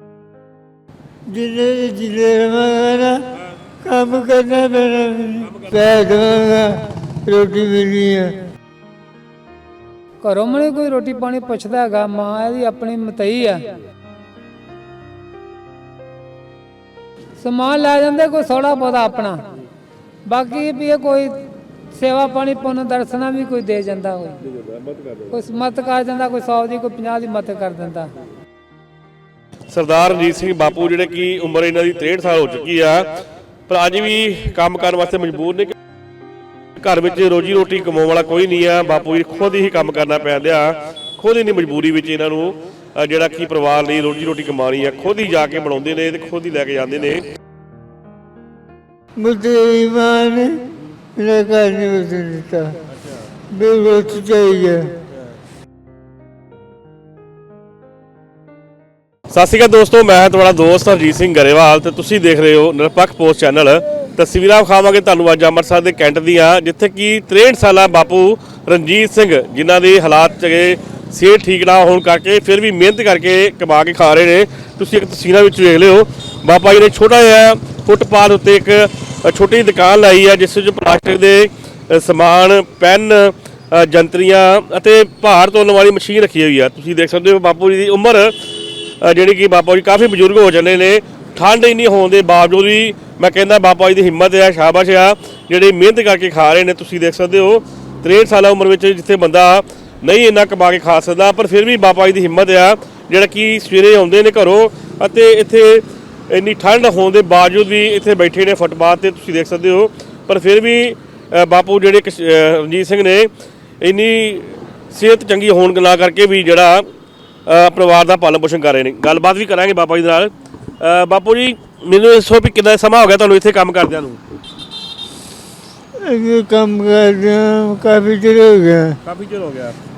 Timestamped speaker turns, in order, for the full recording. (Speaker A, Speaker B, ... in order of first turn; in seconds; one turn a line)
Speaker A: 1.3-3.3
Speaker A: 3.8-8.5
Speaker B: 5.4-5.8
Speaker C: 10.2-13.8
Speaker C: 17.4-19.5
Speaker C: 20.3-24.4
Speaker B: 24.4-25.4
Speaker C: 25.3-28.1
Speaker B: 29.7-35.8
Speaker B: 36.8-47.4
Speaker A: 49.2-52.8
Speaker B: 52.9-53.2
Speaker A: 53.5-55.0
Speaker B: 59.3-88.4
Speaker B: 89.0-116.9
Speaker B: 117.5-124.2
Speaker A: 126.0-129.0
Speaker B: 129.0-129.8